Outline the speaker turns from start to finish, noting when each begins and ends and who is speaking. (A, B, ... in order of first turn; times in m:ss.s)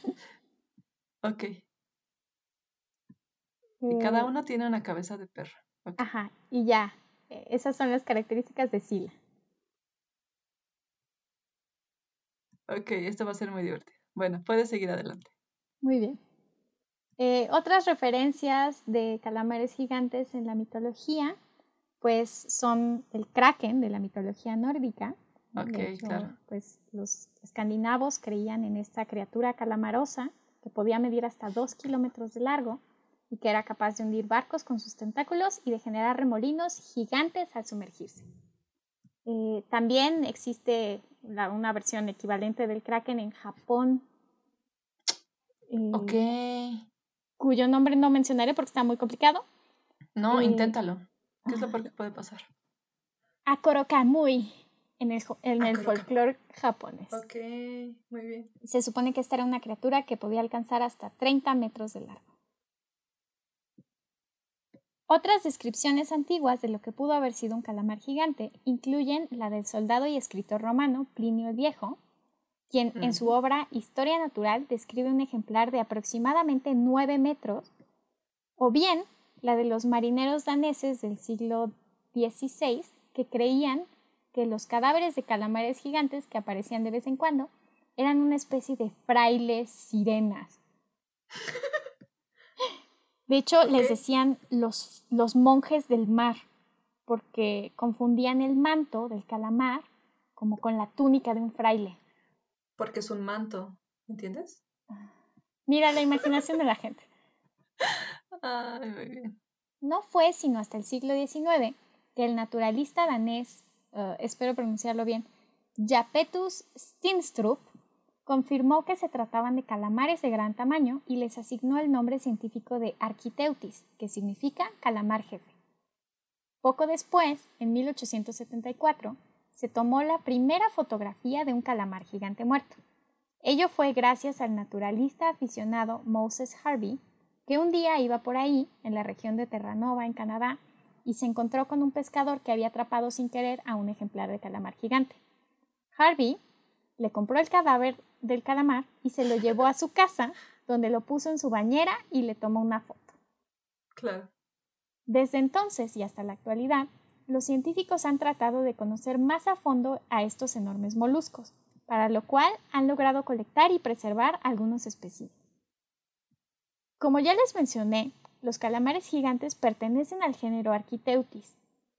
0:01.2-0:01.6 A
0:03.8-0:04.3 B
0:03.9-0:06.0 A
0:06.0-0:09.2 B
0:12.7-0:15.3 A
0:15.8-0:16.2 B
0:17.2-0:21.4 B
0:22.0-0:38.3 B
0:25.6-0:26.3 A
0:39.3-0:44.0 B
0:45.7-0:46.3 B
0:45.9-0:46.9 A
0:47.4-0:49.4 B
0:50.2-0:52.5 A
0:50.3-0:50.8 B
0:51.5-0:51.8 B
0:53.5-0:57.2 B
0:55.6-0:56.1 A
0:57.1-0:58.5 A
0:58.6-1:02.2 B
1:05.1-1:12.0 B
1:12.7-1:17.7 B
1:13.0-1:13.3 A
1:18.6-1:30.6 B
1:31.4-1:31.8 A
1:33.3-1:36.4 B
1:33.6-1:34.0 A
1:37.1-1:42.0 B
1:42.8-1:44.6 A
1:45.7-1:47.1 B
1:47.8-1:49.4 A
1:49.8-1:55.3 B
1:55.8-1:57.7 B
1:58.3-2:05.5 B
2:06.6-2:12.8 B
2:13.4-2:25.2 B
2:26.0-2:26.4 B
2:27.0-2:33.2 B
2:34.0-2:34.3 A
2:35.1-2:45.3 B
2:47.0-2:51.6 B